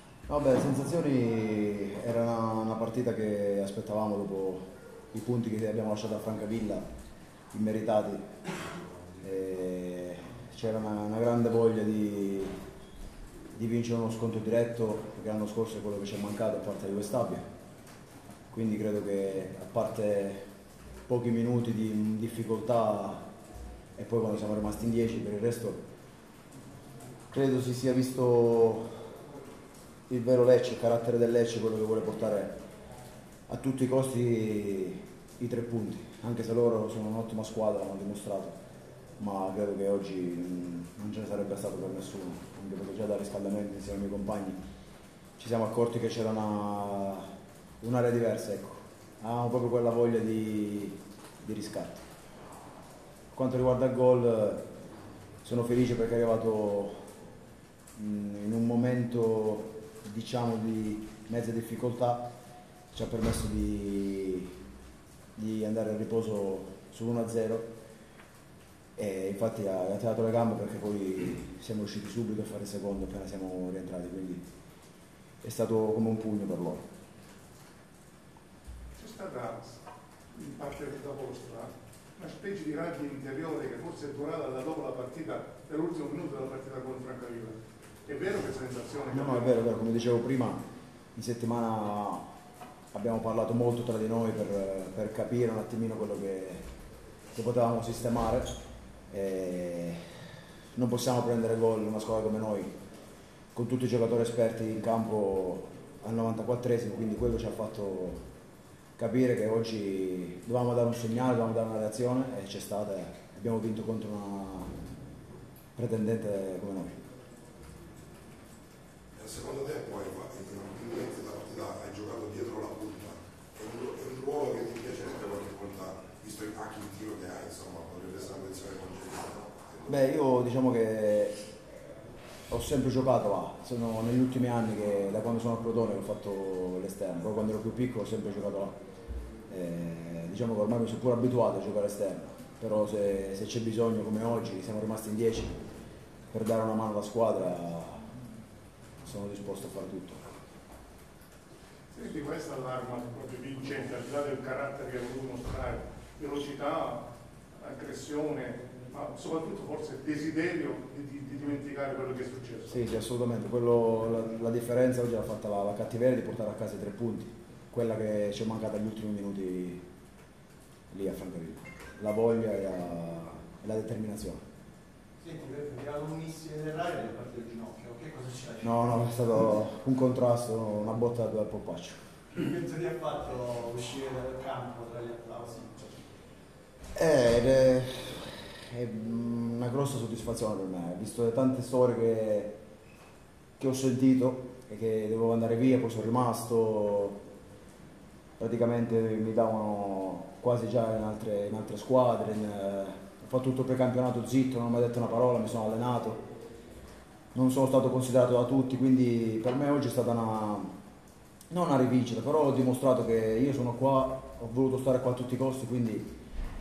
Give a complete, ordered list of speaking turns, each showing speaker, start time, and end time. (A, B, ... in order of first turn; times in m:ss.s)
0:00.3-0:06.8 A
0:07.5-0:08.2 A
0:09.2-0:12.5 A
0:13.5-0:17.4 A
0:18.5-0:20.4 A
0:21.1-0:23.2 A
0:24.0-0:25.8 A
0:27.3-0:29.0 A
0:30.1-0:32.6 A
0:33.5-0:38.5 A
0:39.2-0:44.6 A
0:45.4-0:47.3 A
0:47.8-0:52.0 A
0:53.3-0:54.7 A
0:55.4-0:57.1 A
0:57.9-1:02.3 A
1:02.9-1:04.5 A
1:05.4-1:07.7 A
1:09.0-1:14.4 A
1:15.4-1:16.9 A
1:19.0-1:19.8 B
1:20.3-1:29.5 B
1:29.1-1:30.6 A
1:31.1-1:32.3 A
1:32.9-1:36.6 A
1:37.3-1:38.5 A
1:39.1-1:40.0 A
1:40.7-1:42.7 A
1:43.5-1:48.2 A
1:49.0-1:54.7 A
1:55.7-1:57.0 A
1:59.2-2:10.0 C
2:09.8-2:11.4 A
2:12.5-2:18.8 A
2:19.5-2:25.6 A
2:26.3-2:28.0 A
2:29.0-2:30.2 A
2:31.9-2:42.7 B
2:42.7-2:49.8 A
2:50.9-2:54.4 A
2:55.2-2:59.0 D
2:58.6-3:02.0 A
3:02.4-3:05.9 D
3:06.9-3:12.5 A
3:13.6-3:17.2 A
3:18.4-3:26.2 A
3:27.3-3:30.7 A
3:31.5-3:36.1 A